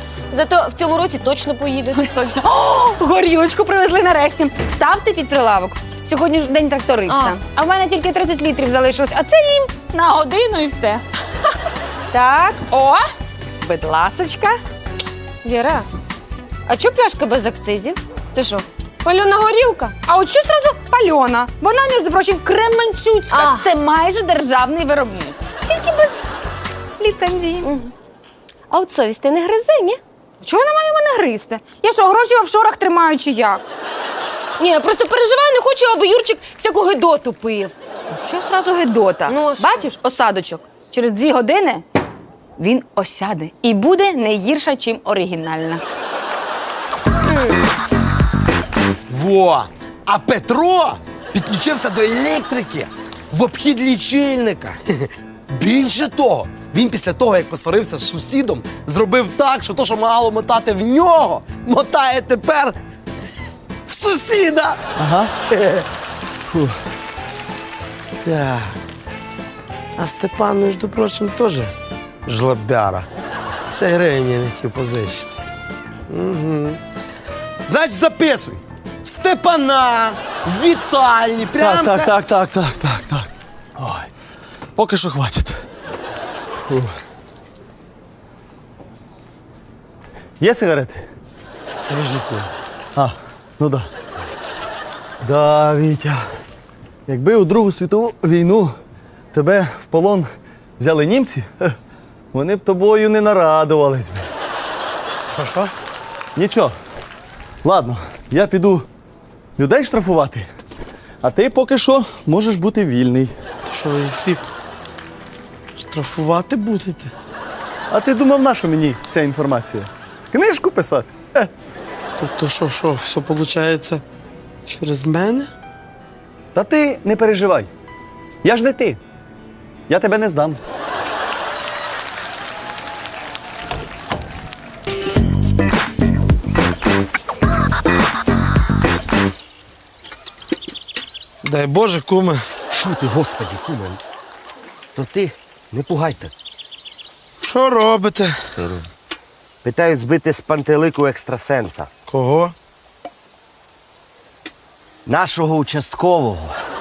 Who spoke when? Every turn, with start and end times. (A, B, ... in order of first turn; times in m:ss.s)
0:00.3-0:02.0 A
0:02.1-0:11.0 B
0:07.1-0:07.4 A
0:12.1-0:13.0 B
0:13.6-0:14.6 B
0:15.4-0:15.8 A
0:16.7-0:19.9 A
0:20.1-0:25.4 B
0:23.3-0:23.7 A
0:25.6-0:26.2 A
0:27.0-0:27.7 B
0:27.6-0:27.9 A
0:28.7-0:30.0 A
0:30.4-0:33.6 B
0:34.6-0:37.7 A
0:38.1-0:41.8 B
0:39.3-0:39.9 A
0:42.6-0:45.8 B
0:47.2-0:47.6 A
0:49.1-1:02.8 C
1:03.9-1:04.8 C
1:05.0-1:05.3 D
1:05.5-1:05.8 C
1:08.2-1:08.8 C
1:10.0-1:11.7 C
1:12.2-1:13.1 C
1:13.7-1:15.4 C
1:16.1-1:16.8 C
1:17.6-1:22.1 C
1:21.6-1:24.1 D
1:24.8-1:25.6 D
1:30.4-1:31.1 D
1:31.9-1:32.5 C
1:33.0-1:33.9 D
1:35.2-1:36.2 D
1:37.1-1:38.7 D
1:39.3-1:40.3 D
1:40.8-1:41.7 D
1:42.3-1:44.3 D
1:45.3-1:45.7 C
1:46.4-1:46.7 D
1:47.6-1:48.8 D
1:49.6-1:50.5 D
1:51.2-1:53.3 D
1:53.7-1:54.4 C
1:55.8-1:57.1 C
1:57.9-2:01.5 D
2:02.2-2:04.0 C
2:04.6-2:05.5 C
2:06.5-2:07.7 D
2:08.4-2:09.0 D
2:09.9-2:10.6 D
2:21.4-2:22.4 C
2:22.7-2:24.0 E
2:25.0-2:26.3 E
2:27.4-2:28.4 C
2:28.6-2:28.8 E
2:29.6-2:31.9 E
2:32.1-2:32.5 C
2:35.0-2:36.5 E